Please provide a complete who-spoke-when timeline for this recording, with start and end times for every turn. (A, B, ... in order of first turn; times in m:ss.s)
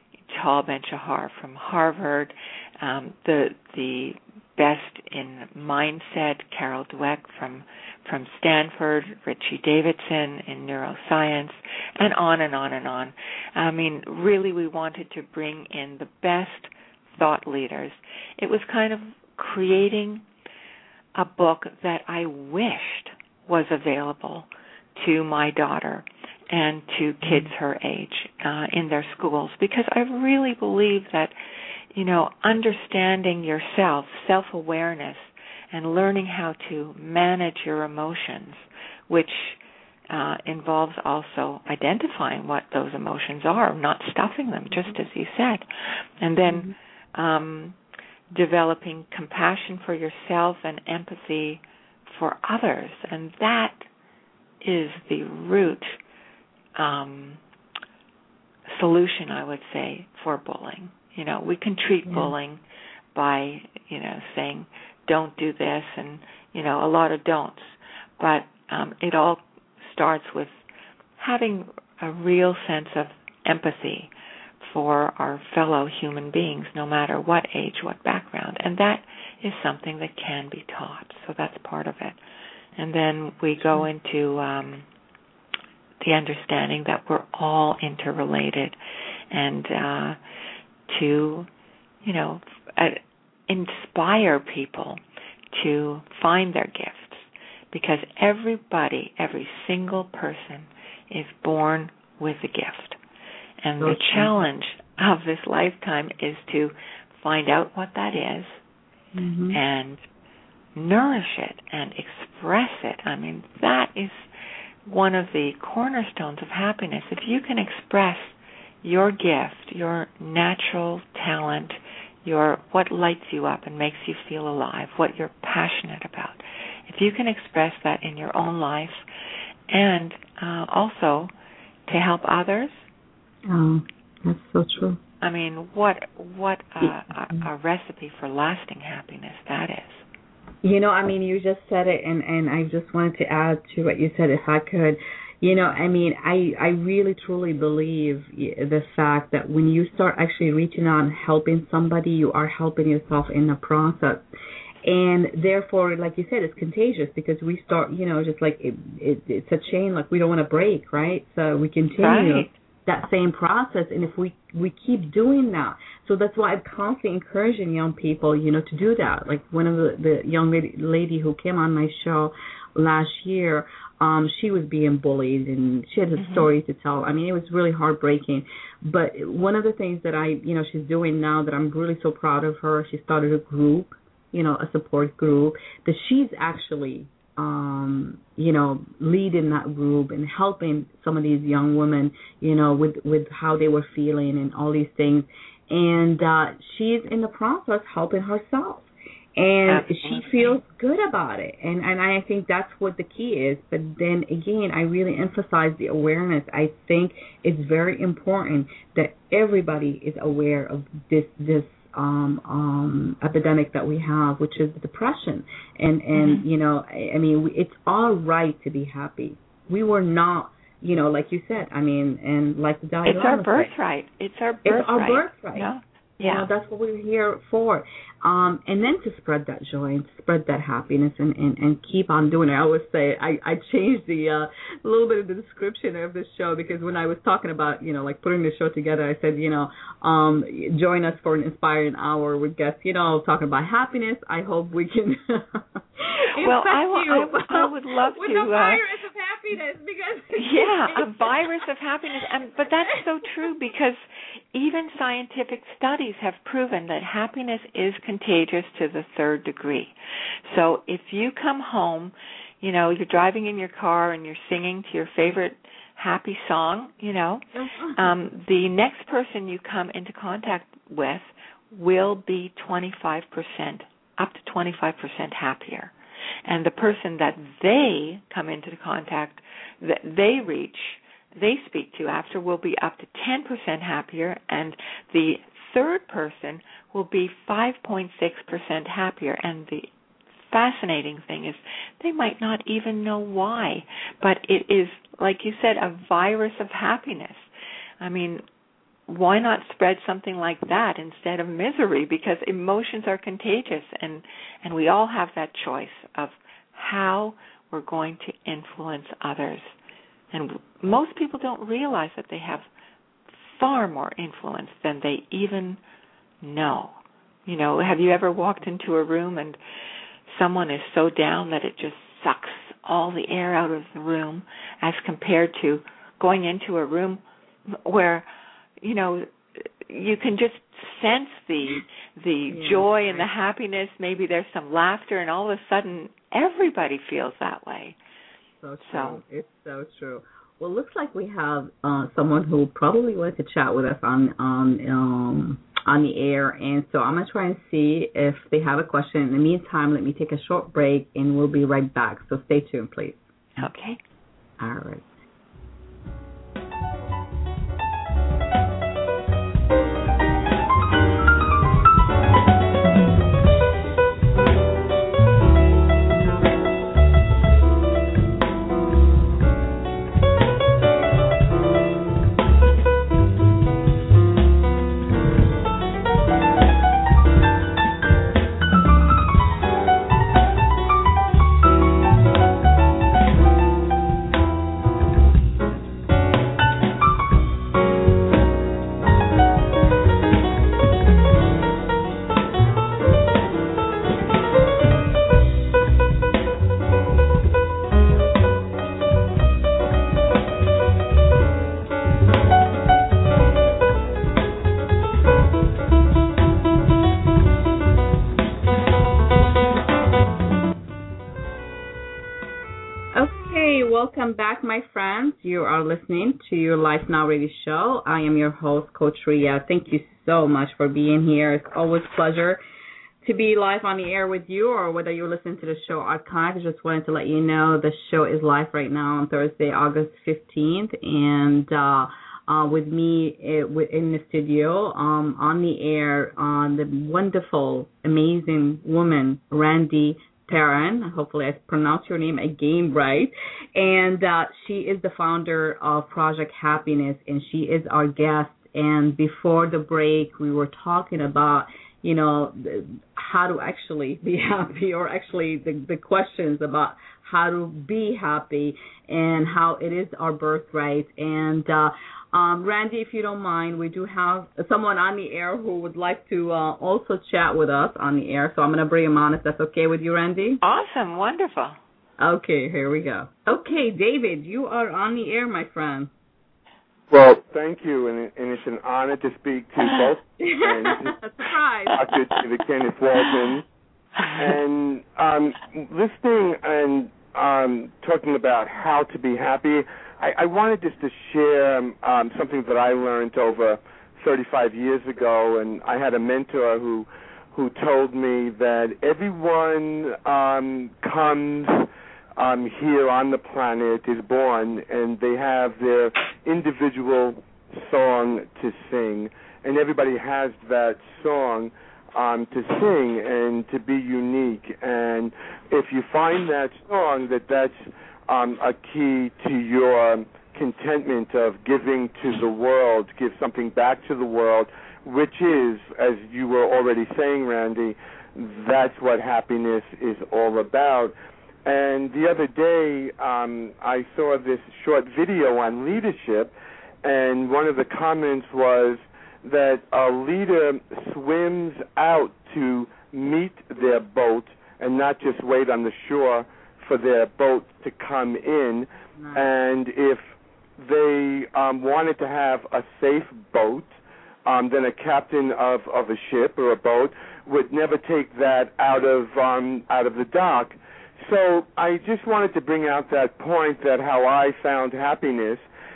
0:00.3-0:20.2 A
0:21.1-0:31.3 A
0:27.2-0:27.5 B
0:31.9-0:39.6 A
0:40.1-0:47.8 A
0:48.3-0:53.9 A
0:54.6-0:56.0 A
0:56.8-0:57.4 A
0:58.7-1:02.6 A
1:02.1-1:02.3 B
1:03.1-1:10.5 A
1:11.2-1:14.1 A
1:14.6-1:22.2 A
1:22.8-1:24.8 A
1:26.0-1:28.8 A
1:29.3-1:30.2 A
1:30.9-1:31.5 A
1:32.0-1:35.0 A
1:35.5-1:43.0 A
1:43.6-1:48.6 A
1:43.8-1:44.3 B
1:49.1-1:49.6 B
1:49.5-1:50.0 A
1:50.8-1:54.3 A
1:54.8-2:09.0 A
2:09.7-2:11.3 A
2:11.9-2:12.8 A
2:13.5-2:15.0 B
2:15.2-2:20.0 A
2:20.6-2:34.2 B
2:34.8-3:43.7 B
2:42.0-2:42.5 A
2:56.2-2:56.5 A
3:19.6-3:20.6 A
3:36.1-3:36.4 A
3:43.0-3:46.5 A
3:44.6-3:45.7 B
3:46.2-4:11.3 B
4:06.4-4:08.8 A
4:10.4-4:14.0 A
4:14.5-4:19.9 A
4:20.5-4:35.9 A
4:27.6-4:28.1 B
4:36.4-4:49.9 A
4:50.5-4:57.5 A
4:58.0-4:58.4 A
4:59.1-5:09.7 A
5:10.3-5:12.6 A
5:13.5-5:15.8 A
5:16.4-5:19.6 A
5:20.3-5:28.3 A
5:28.8-5:38.0 A
5:32.5-5:33.3 B
5:38.6-5:53.6 B
5:38.8-5:39.2 A
5:53.6-5:54.0 A
5:54.6-5:55.0 B
6:53.1-7:02.6 B
7:03.2-7:50.6 B
7:50.6-7:51.8 A
7:52.2-7:56.1 B
7:57.1-8:01.1 C
8:00.4-8:02.0 B
8:01.9-8:03.6 C
8:04.2-8:51.1 C
8:51.6-9:13.9 C
9:09.2-9:09.4 B
9:14.4-9:25.6 C